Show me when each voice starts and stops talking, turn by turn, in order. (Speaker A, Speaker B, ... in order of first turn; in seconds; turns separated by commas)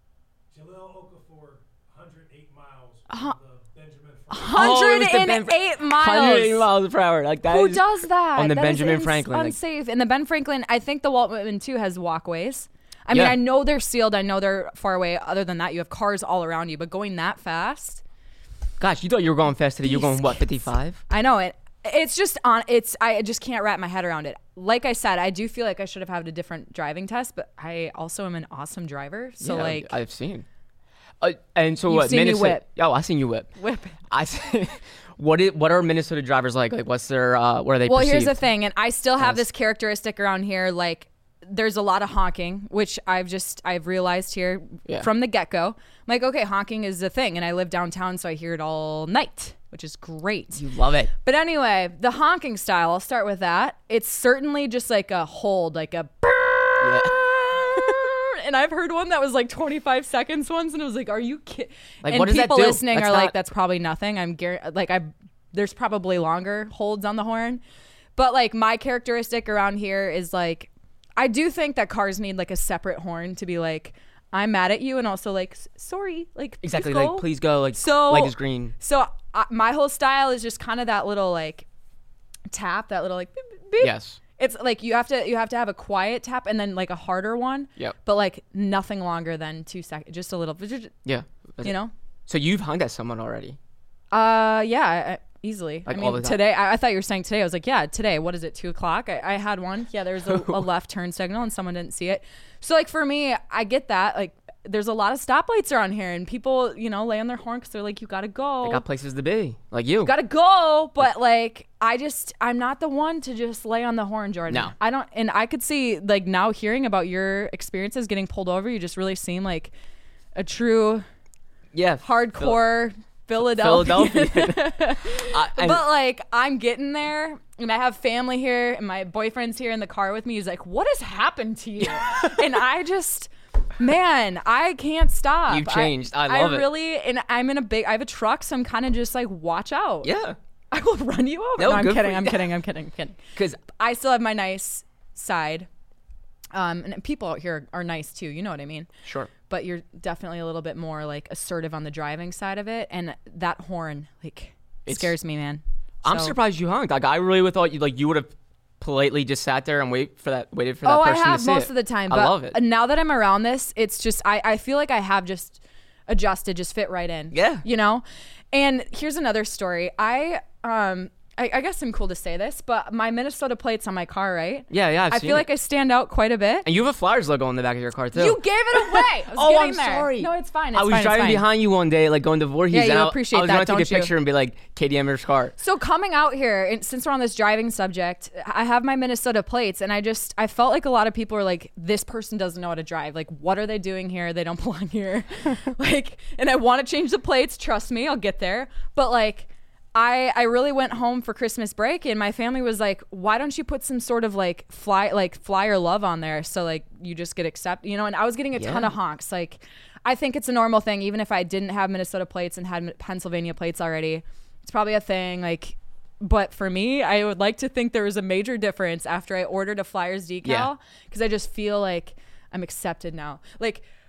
Speaker A: 0.5-4.8, Speaker B: 3.1-3.4, Speaker B: 4.3-6.7, Speaker C: 4.5-9.6, Speaker B: 7.5-18.0, Speaker C: 13.1-13.4, Speaker C: 18.8-21.0, Speaker B: 19.8-20.4, Speaker B: 21.1-29.9, Speaker C: 29.4-30.4, Speaker C: 31.2-33.5, Speaker B: 31.9-32.6, Speaker B: 33.6-34.0, Speaker C: 34.1-38.4, Speaker B: 37.9-50.6, Speaker C: 39.2-39.4, Speaker C: 50.5-51.1, Speaker B: 51.2-67.6, Speaker C: 56.8-57.1, Speaker C: 62.0-63.3, Speaker B: 68.2-81.7, Speaker C: 76.6-78.7, Speaker B: 82.5-90.9, Speaker C: 83.8-84.2, Speaker C: 91.0-91.7, Speaker B: 91.6-91.9, Speaker C: 92.3-93.6, Speaker B: 94.1-108.8, Speaker C: 95.8-96.4, Speaker C: 100.3-100.6, Speaker C: 108.6-110.1, Speaker B: 110.0-119.7, Speaker C: 114.5-114.7, Speaker B: 120.3-121.0, Speaker C: 121.7-122.6, Speaker B: 122.0-140.1, Speaker C: 123.4-125.8, Speaker C: 131.8-132.4, Speaker C: 135.5-136.7, Speaker C: 140.0-140.4, Speaker B: 140.7-145.7, Speaker C: 141.6-142.5, Speaker B: 146.5-148.9, Speaker C: 149.0-149.3, Speaker B: 149.5-156.3, Speaker C: 154.8-155.1, Speaker C: 156.0-162.6, Speaker B: 160.8-176.7, Speaker C: 167.3-167.6, Speaker C: 174.7-175.5, Speaker C: 176.6-185.5, Speaker B: 178.1-181.4, Speaker B: 182.7-184.1, Speaker B: 185.6-223.8, Speaker C: 208.5-208.9, Speaker C: 220.4-220.7